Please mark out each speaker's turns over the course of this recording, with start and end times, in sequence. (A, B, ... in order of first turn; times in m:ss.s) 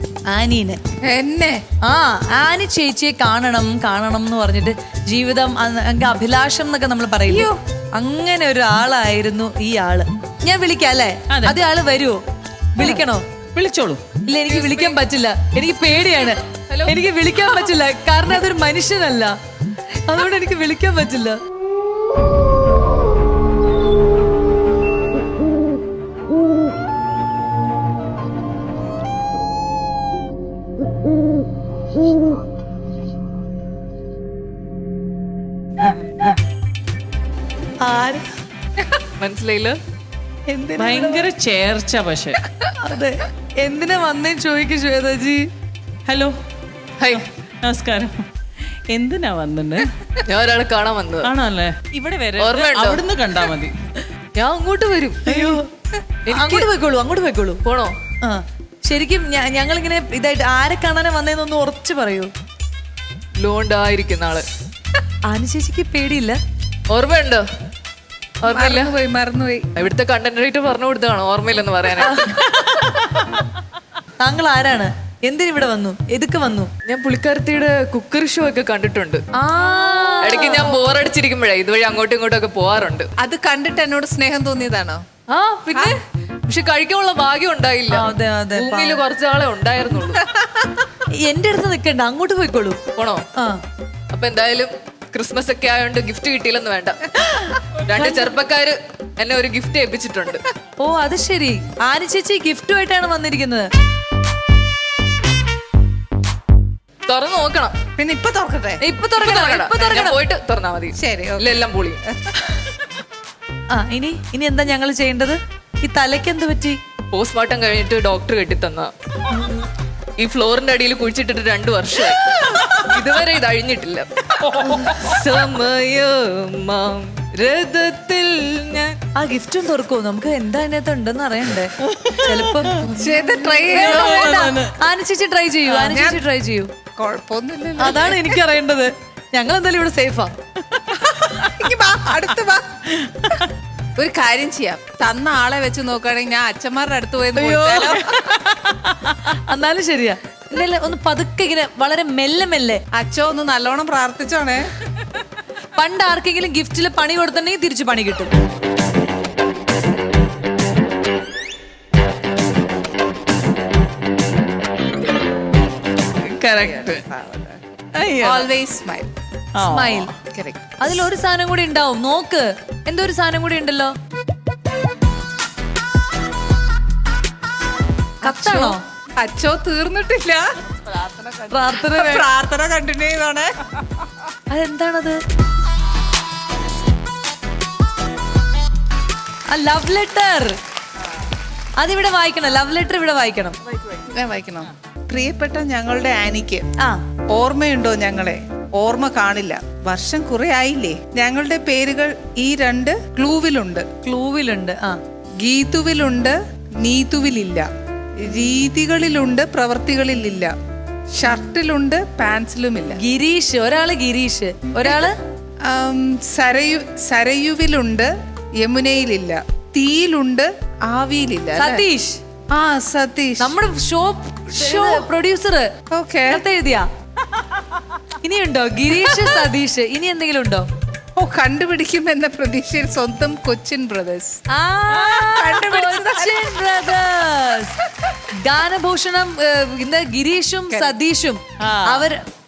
0:00.3-0:00.8 A
0:01.0-0:01.6 B
0:01.8-0:12.2 A
0:07.3-0:07.6 B
0:11.3-0:11.6 C
0:12.8-0:13.2 A
0:13.5-0:14.0 C
0:14.3-0:19.3 A
0:14.5-0:15.0 D
0:16.7-0:17.0 D
0:20.1-0:21.4 A
0:37.8-0:38.2 A
0:39.2-0:39.8 D
0:40.5-0:41.3 A
0:40.8-0:42.4 C
0:42.8-0:45.5 A
0:46.1-0:46.4 C
0:47.1-0:48.3 C
0:48.9-0:49.9 C
0:50.3-0:51.3 D
0:51.2-0:53.8 C
0:52.4-0:53.1 D
0:54.4-0:55.6 D
0:55.3-0:55.7 A
0:56.2-0:56.7 D
0:56.3-0:57.6 A
0:57.6-0:58.0 D
0:58.2-1:02.3 A
1:03.4-1:04.4 D
1:05.3-1:06.4 A
1:06.9-1:07.4 D
1:08.4-1:08.9 D
1:08.5-1:09.7 B
1:09.8-1:12.4 D
1:12.0-1:12.9 A
1:14.2-1:16.7 A
1:16.9-1:19.2 D
1:19.4-1:20.7 A
1:20.2-1:23.1 D
1:23.2-1:25.0 B
1:25.3-1:30.3 D
1:25.7-1:26.0 B
1:27.9-1:29.0 A
1:31.2-1:32.8 A
1:33.0-1:33.2 D
1:34.1-1:40.4 D
1:37.9-1:38.3 A
1:40.8-1:43.7 A
1:47.1-1:47.8 D
1:48.0-1:48.8 B
1:48.8-1:50.2 A
1:49.1-1:52.0 D
1:51.0-1:51.5 B
1:53.7-1:56.8 A
1:57.1-1:58.9 D
2:00.2-2:09.0 D
2:09.2-2:12.9 A
2:11.8-2:12.9 C
2:12.9-2:14.4 B
2:13.6-2:14.7 C
2:13.7-2:16.7 A
2:15.7-2:16.2 B
2:17.0-2:18.3 B
2:17.8-2:20.3 A
2:20.9-2:22.8 B
2:23.0-2:23.4 C
2:24.0-2:28.3 B
2:27.4-2:32.8 A
2:32.9-2:34.7 B
2:35.8-2:38.3 A
2:46.2-2:47.0 C
2:46.6-2:47.6 B
2:47.9-2:48.5 C
2:48.2-2:49.1 B
2:49.6-2:50.1 C
2:49.6-2:50.1 A
2:50.2-2:50.8 B
2:50.8-2:53.9 A
2:58.2-2:58.8 A
2:58.2-3:03.5 B
3:01.5-3:02.3 A
3:04.5-3:05.2 A
3:09.5-3:10.6 A
3:11.8-3:13.6 A
3:14.0-3:16.7 B
3:17.3-3:23.9 B
3:24.0-3:25.0 A
3:25.4-3:27.7 B
3:28.2-3:30.6 B
3:31.1-3:33.0 B
3:33.0-3:35.2 A
3:34.8-3:35.1 B
3:35.7-3:41.9 B
3:41.6-3:42.2 A
3:42.5-3:43.6 B
3:43.4-3:45.7 A
3:44.5-3:45.1 B
3:45.9-3:46.4 B
3:46.3-3:46.9 A
3:48.2-3:50.7 A
3:51.2-3:54.4 B
3:54.5-4:02.2 A
3:54.9-3:56.6 B
4:00.7-4:01.0 B
4:01.6-4:02.1 C